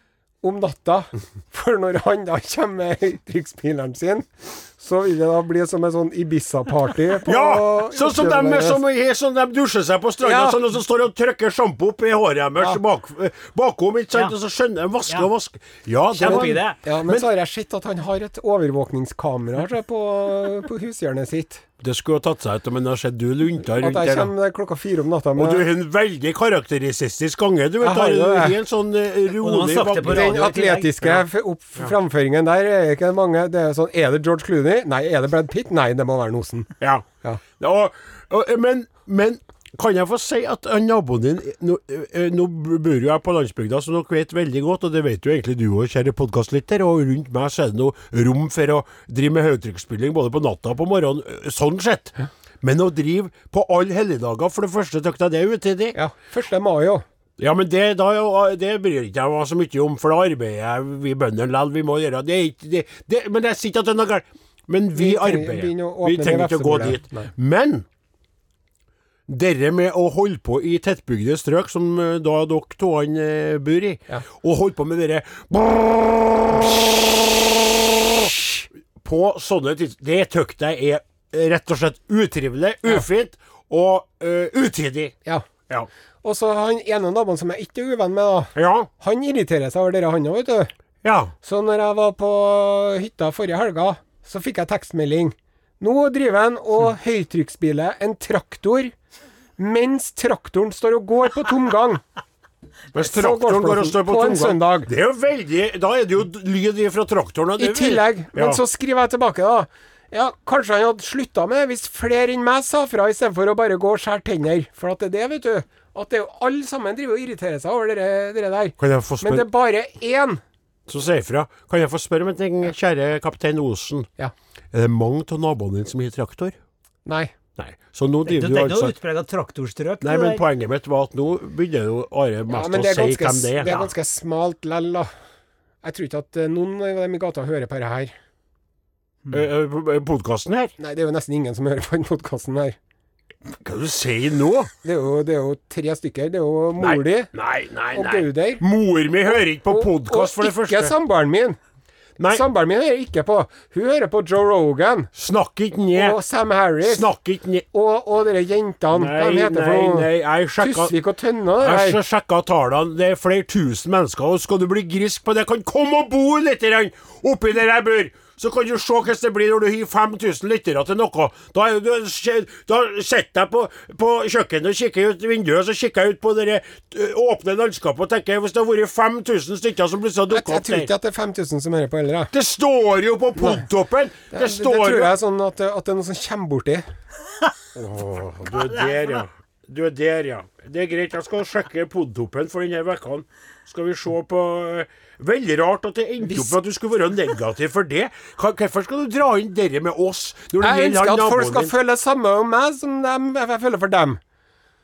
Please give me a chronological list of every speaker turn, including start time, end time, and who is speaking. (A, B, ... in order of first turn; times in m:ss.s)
0:00.4-0:08.8 A
0:07.2-0:17.3 B
0:10.2-0:10.6 A
0:16.1-0:16.8 C
0:16.2-0:21.6 A
0:21.8-0:24.3 B
0:23.7-0:25.7 A
0:25.4-0:30.5 B
0:27.8-0:28.6 A
0:29.4-0:31.1 C
0:30.0-0:36.7 A
0:36.8-0:37.0 B
0:37.6-0:56.0 B
0:55.9-0:57.0 A
0:57.4-1:07.8 B
1:04.9-1:07.3 A
1:09.3-1:25.1 B
1:26.2-1:30.7 A
1:28.5-1:28.9 B
1:31.0-1:31.3 B
1:31.4-1:38.9 A
1:39.6-1:42.0 A
1:42.9-1:48.6 B
1:43.0-1:44.9 A
1:47.6-2:00.4 A
1:58.8-1:59.5 B
2:00.9-2:04.1 B
2:04.7-2:06.6 B
2:07.0-2:07.3 A
2:07.6-2:09.0 B
2:08.2-2:10.4 C
2:10.0-2:13.8 B
2:12.5-2:15.1 A
2:13.6-2:13.9 C
2:15.8-2:18.1 A
2:19.3-2:20.7 B
2:20.8-2:22.8 A
2:23.6-2:24.7 B
2:24.8-2:27.3 A
2:26.8-2:30.9 B
2:27.9-2:28.6 A
2:29.3-2:31.6 A
2:32.2-2:32.4 B
2:32.3-2:35.1 A
2:35.1-2:36.2 B
2:35.9-2:37.1 A
2:36.8-2:37.6 B
2:37.7-2:42.0 A
2:38.9-2:41.0 B
2:41.6-3:00.9 B
3:00.3-3:02.3 A
3:02.3-3:05.1 B
3:03.4-3:03.6 A
3:04.3-3:06.8 A
3:07.7-3:21.7 B
3:16.3-3:16.5 A
3:20.6-3:24.2 A